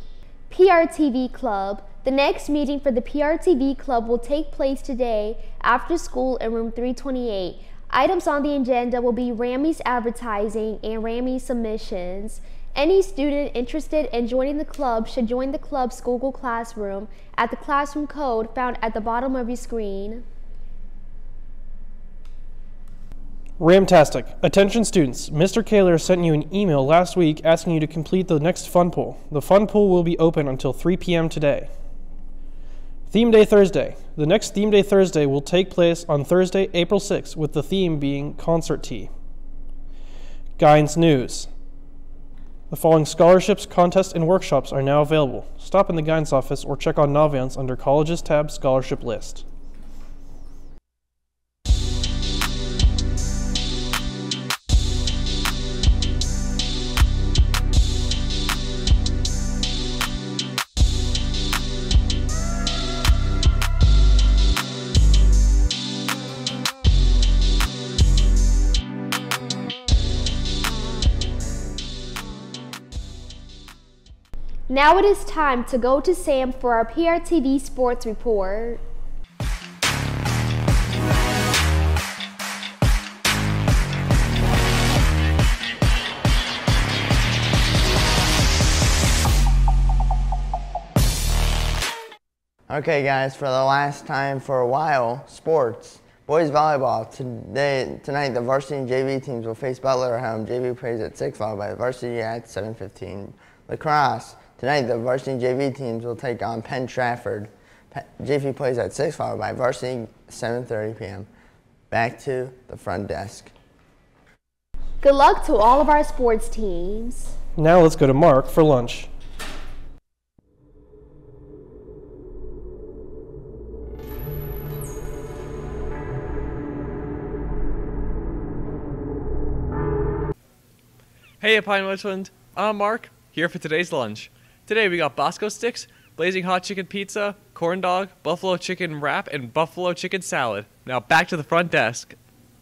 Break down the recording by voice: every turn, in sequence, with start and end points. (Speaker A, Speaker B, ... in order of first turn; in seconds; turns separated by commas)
Speaker A: 0.5-20.2, Speaker B: 23.6-31.7, Speaker B: 33.1-39.1, Speaker B: 40.6-41.5, Speaker B: 42.7-49.4, Speaker A: 74.7-78.8, Speaker C: 92.7-111.3, Speaker C: 111.9-113.5, Speaker A: 115.0-117.3, Speaker B: 117.5-119.1, Speaker D: 131.4-142.2